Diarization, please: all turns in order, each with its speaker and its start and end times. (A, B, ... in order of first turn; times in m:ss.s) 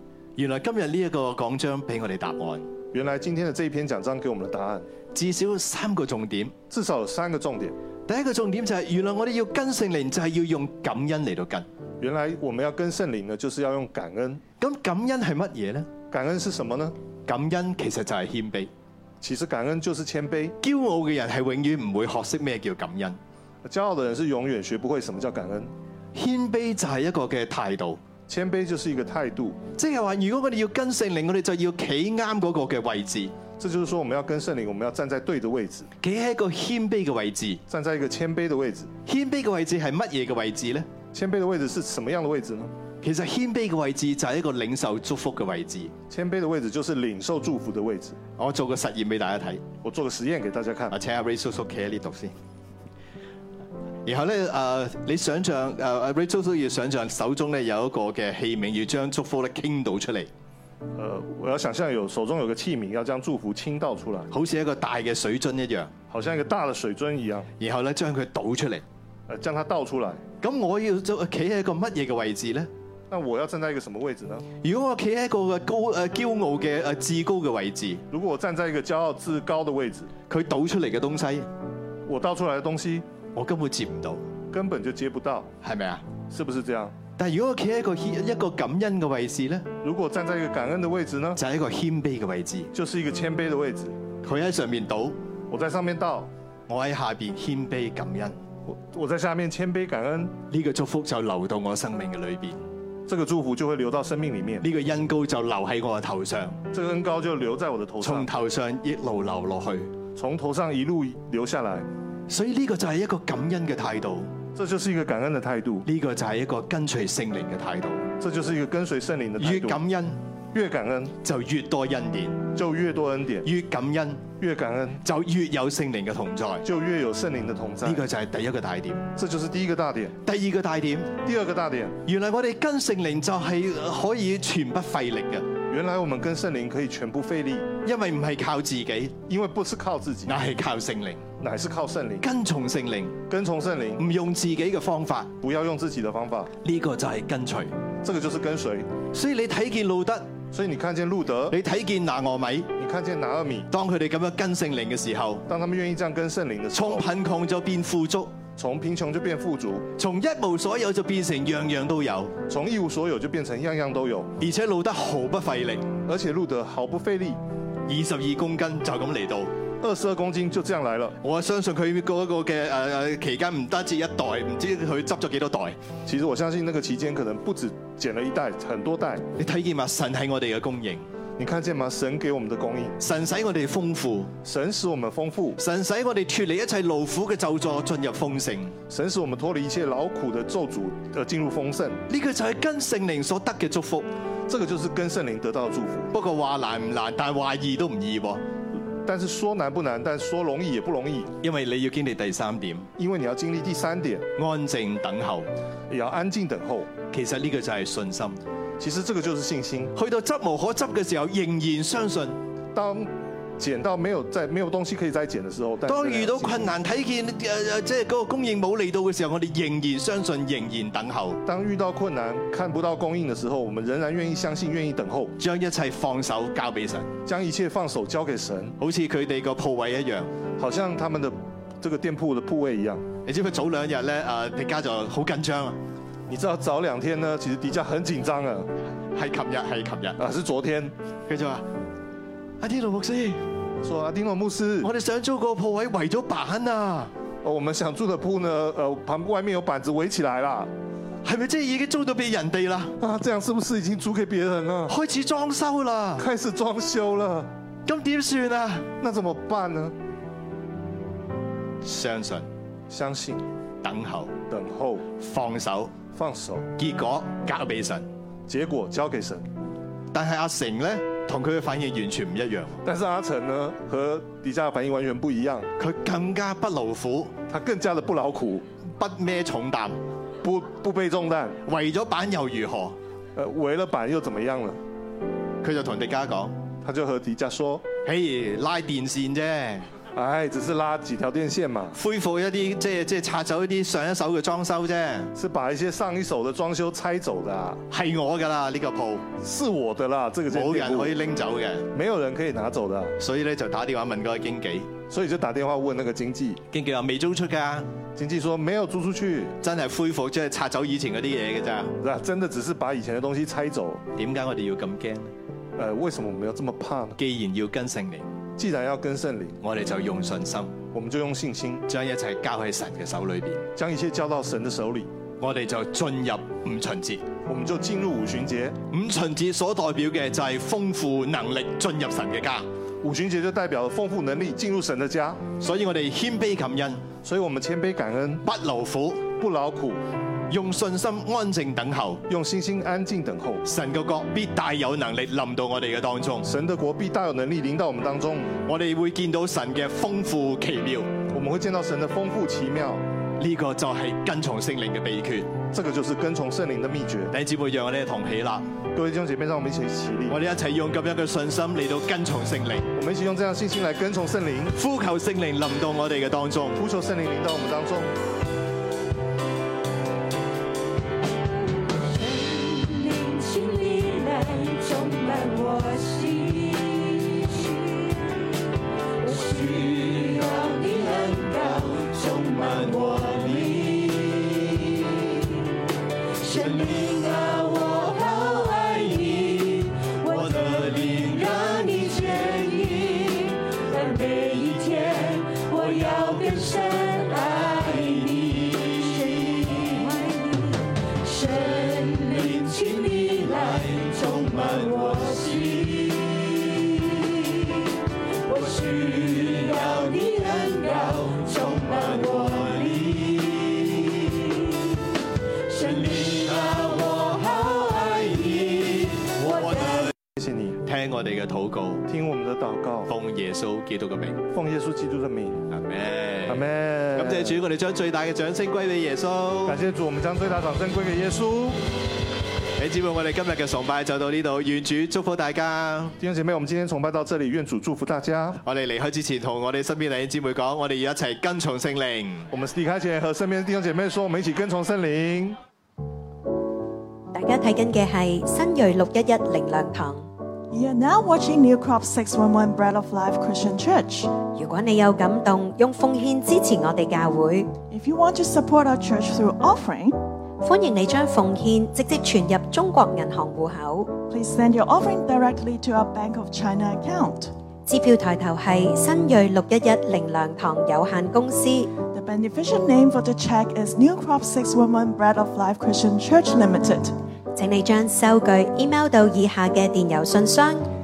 0:00.4-0:02.7 A
0:02.9-0:04.9 B
0:05.1-0:06.5 A
0:06.7-0:07.8 B
0:08.1-0:11.7 A
0:12.0-0:14.4 B
0:14.6-0:15.9 A
0:16.1-0:17.0 B
0:17.2-0:18.7 A
0:19.2-0:20.6 B
0:20.6-0:23.2 A
0:23.6-0:25.7 B
0:26.1-0:28.0 A
0:28.3-0:29.6 B
0:29.8-0:33.4 A
0:33.6-0:35.9 B
0:36.0-0:37.6 A
0:37.7-0:38.9 B
0:39.0-0:40.9 A
0:41.1-0:42.7 B
0:43.0-0:45.9 A
0:46.1-0:48.2 B
0:48.4-0:49.6 A
0:49.8-0:51.0 B
0:50.9-0:52.3 A
0:54.0-1:00.3 A
1:01.0-1:04.3 B
1:04.3-1:05.9 A
1:06.1-1:07.5 B
1:07.6-1:08.8 A
1:09.3-1:10.2 B
1:10.4-1:12.7 A
1:13.1-1:14.5 B
1:14.6-1:18.0 A
1:18.1-1:20.1 B
1:20.3-1:21.5 A
1:22.0-1:23.1 B
1:23.3-1:24.2 A
1:24.5-1:25.5 B
1:25.6-1:26.0 A
1:26.3-1:27.0 B
1:27.2-1:29.7 A
1:29.8-1:31.4 B
1:31.4-1:32.7 A
1:32.7-1:34.0 B
1:34.2-1:35.2 A
1:35.5-1:36.3 B
1:36.7-1:38.4 A
1:38.6-1:40.4 B
1:40.5-1:42.6 A
1:43.1-1:44.6 B
1:44.6-1:46.6 A
1:46.7-1:48.3 B
1:48.0-1:49.9 A
1:50.2-1:51.9 B
1:52.3-1:54.3 A
1:54.5-1:55.9 B
1:55.8-1:58.1 A
1:58.2-1:59.8 B
1:59.4-2:00.2 A
2:00.5-2:01.2 B
2:01.2-2:02.5 A
2:02.5-2:03.5 B
2:03.4-2:04.3 A
2:04.4-2:05.0 B
2:05.0-2:06.6 A
2:06.6-2:08.1 B
2:07.8-2:09.0 A
2:09.1-2:10.2 B
2:10.2-2:11.2 A
2:11.2-2:12.0 B
2:12.0-2:15.5 A
2:15.7-2:17.7 B
2:17.8-2:19.2 A
2:19.3-2:20.4 B
2:20.2-2:21.2 A
2:21.4-2:22.3 B
2:22.2-2:23.2 A
2:23.3-2:24.0 B
2:24.0-2:25.3 A
2:25.4-2:26.5 B
2:26.6-2:27.7 A
2:28.0-2:28.9 B
2:29.1-2:30.3 A
2:30.5-2:31.6 B
2:31.5-2:32.7 A
2:32.7-2:33.7 B
2:33.7-2:35.4 A
2:35.5-2:37.1 B
2:36.7-2:38.4 A
2:38.6-2:39.9 B
2:40.0-2:42.3 A
2:42.5-2:44.3 B
2:44.4-2:45.9 A
2:46.0-2:47.4 B
2:47.9-2:49.5 A
2:49.8-2:51.2 B
2:51.2-2:55.8 A
2:56.0-2:59.3 B
2:59.4-3:01.0 A
3:01.4-3:03.0 B
3:03.0-3:04.3 A
3:04.4-3:05.6 B
3:05.6-3:08.7 A
3:08.9-3:12.0 B
3:12.1-3:14.1 A
3:14.5-3:16.1 B
3:16.1-3:18.4 A
3:19.0-3:21.3 B
3:21.4-3:22.9 A
3:23.0-3:24.3 B
3:24.4-3:25.5 A
3:25.9-3:26.9 B
3:27.1-3:28.4 A
3:28.8-3:29.9 B
3:30.0-3:32.4 A
3:32.7-3:36.8 B
3:35.9-3:41.4 A
3:41.4-3:45.3 B
3:45.4-3:47.1 A
3:47.2-3:48.8 B
3:48.8-3:50.3 A
3:50.6-3:53.0 B
3:53.2-3:55.8 A
3:56.3-3:58.7 B
3:59.1-4:00.2 A
4:00.2-4:00.9 B
4:01.3-4:01.6 A
4:02.6-4:03.4 A
4:03.8-4:04.9 B
4:04.8-4:07.1 A
4:07.4-4:10.7 B
4:11.2-4:12.9 A
4:13.0-4:15.0 B
4:14.9-4:16.2 A
4:16.2-4:17.5 B
4:17.8-4:18.9 A
4:19.0-4:20.0 B
4:21.8-4:22.5 A
4:22.9-4:23.4 B
4:23.8-4:24.4 A
4:24.5-4:25.1 B
4:25.2-4:26.0 A
4:26.1-4:26.7 B
4:26.8-4:28.0 A
4:28.5-4:29.4 B
4:30.1-4:32.8 A
4:32.8-4:35.7 B
4:35.8-4:37.3 A
4:37.5-4:38.7 B
4:39.0-4:40.0 A
4:40.4-4:41.6 B
4:41.6-4:43.0 A
4:43.3-4:44.8 B
4:45.6-4:46.5 A
4:46.8-4:47.9 B
4:48.0-4:49.9 A
4:50.1-4:52.0 B
4:52.0-4:55.3 A
4:55.3-4:57.8 B
4:57.9-4:59.2 A
4:59.4-5:01.2 B
5:00.5-5:01.8 A
5:01.9-5:03.2 B
5:03.2-5:04.9 A
5:05.1-5:06.6 B
5:06.7-5:07.9 A
5:08.2-5:09.6 B
5:09.6-5:11.9 A
5:12.0-5:14.0 B
5:14.1-5:15.3 A
5:15.8-5:17.2 B
5:17.2-5:18.3 A
5:18.6-5:19.6 B
5:19.6-5:20.8 A
5:20.9-5:21.9 B
5:21.9-5:23.6 A
5:23.8-5:25.1 B
5:25.4-5:27.3 A
5:27.4-5:28.8 B
5:28.9-5:32.7 A
5:33.0-5:35.4 B
5:35.6-5:37.1 A
5:37.2-5:38.4 B
5:38.4-5:39.3 A
5:39.3-5:40.0 B
5:40.5-5:42.2 A
5:42.3-5:43.6 B
5:43.6-5:46.4 A
5:46.4-5:48.5 B
5:48.6-5:51.2 A
5:51.3-5:53.0 B
5:53.4-5:55.6 A
5:55.7-5:57.3 B
5:57.3-5:58.7 A
5:58.9-6:00.4 B
6:00.3-6:02.9 A
6:02.9-6:04.8 B
6:04.8-6:06.8 A
6:06.8-6:08.1 B
6:11.9-6:18.4 C
6:19.2-6:25.4 C
6:26.4-6:47.8 C
6:48.4-6:54.8 C
6:55.6-7:00.1 C
7:00.3-7:00.8 B
7:00.8-7:02.0 A
7:02.1-7:03.1 B
7:03.1-7:04.4 A
7:04.5-7:05.7 B
7:05.7-7:09.8 A
7:06.4-7:07.6 B
7:09.6-7:11.8 B
7:12.8-7:16.1 A
7:16.2-7:18.6 B
7:18.6-7:22.5 A
7:22.5-7:25.6 B
7:27.3-7:30.2 D
7:30.7-7:34.4 E
7:34.4-7:37.7 D
7:37.9-7:40.2 E
7:40.6-7:44.1 D
7:44.3-7:47.5 E
7:47.8-7:51.9 D
7:52.0-7:57.1 E
7:57.5-8:00.9 D